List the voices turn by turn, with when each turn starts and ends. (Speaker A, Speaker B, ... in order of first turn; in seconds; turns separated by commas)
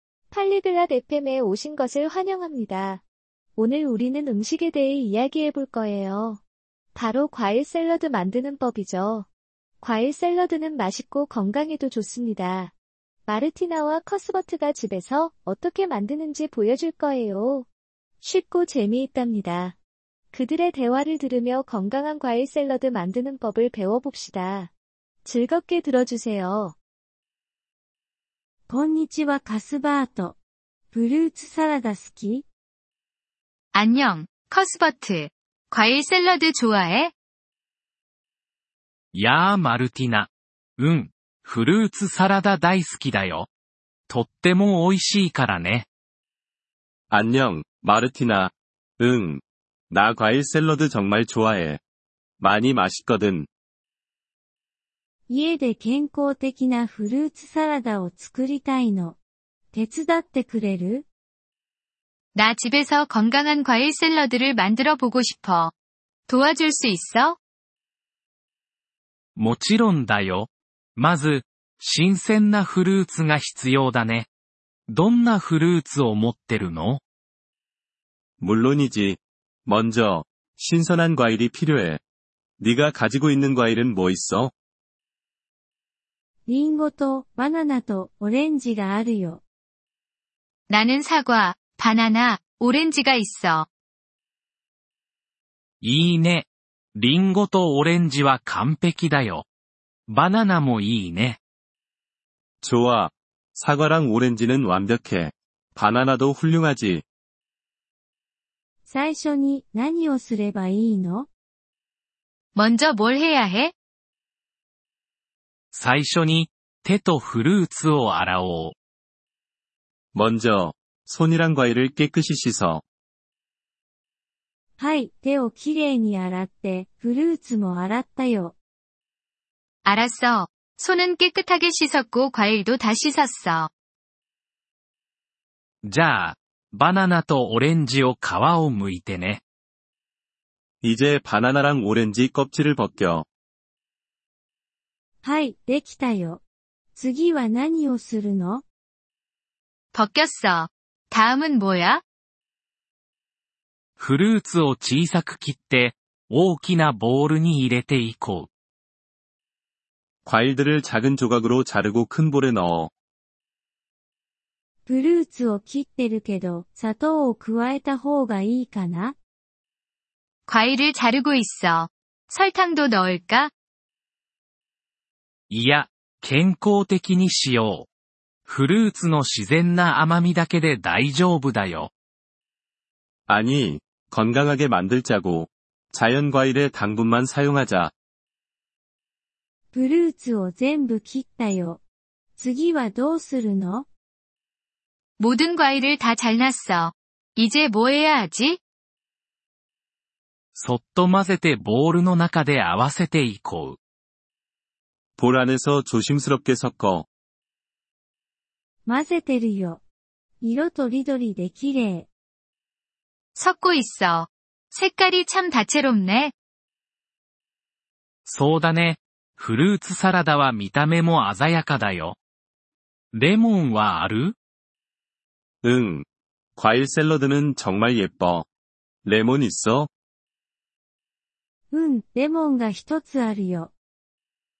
Speaker A: 0.3-3.0, Speaker A: 3.6-6.4, Speaker A: 7.0-9.3, Speaker A: 9.8-12.7, Speaker A: 13.3-17.7, Speaker A: 18.2-19.8, Speaker A: 20.3-24.7, Speaker A: 25.2-26.8, Speaker B: 28.7-30.4, Speaker B: 30.9-32.5, Speaker C: 33.7-37.1, Speaker D: 39.1-43.5, Speaker D: 44.1-45.9, Speaker E: 47.1-51.8, Speaker E: 52.4-53.5, Speaker B: 55.3-59.2, Speaker B: 59.7-61.0, Speaker C: 62.4-65.7, Speaker C: 66.3-67.4, Speaker D: 69.4-74.3, Speaker D: 74.9-77.0, Speaker E: 78.4-82.0, Speaker E: 82.6-84.5, Speaker B: 86.5-89.4, Speaker C: 90.7-93.7, Speaker D: 95.8-99.5, Speaker D: 100.1-101.4, Speaker E: 102.6-107.0, Speaker B: 108.9-111.3, Speaker C: 112.5-113.7, Speaker D: 115.7-118.8, Speaker E: 120.1-122.8, Speaker B: 124.8-128.6, Speaker C: 129.8-133.7, Speaker D: 135.8-139.4, Speaker E: 140.8-143.2, Speaker B: 145.2-146.4, Speaker B: 146.9-148.6, Speaker C: 149.9-152.0, Speaker D: 154.0-158.5, Speaker E: 160.3-162.9, Speaker B: 164.9-169.2, Speaker C: 170.5-173.5, Speaker D: 175.5-177.9, Speaker D: 178.5-181.9, Speaker E: 183.3-187.9, Speaker B: 189.7-191.8, Speaker B: 192.4-193.9, Speaker C: 195.2-198.6, Speaker D: 200.6-203.8, Speaker E: 205.2-207.1, Speaker B: 208.9-209.8, Speaker B: 210.4-212.1, Speaker C: 213.3-216.3, Speaker D: 218.3-222.2, Speaker D: 223.1-224.3, Speaker E: 225.6-226.1, Speaker E: 226.6-228.5, Speaker E: 229.1-229.9, Speaker B: 231.7-233.7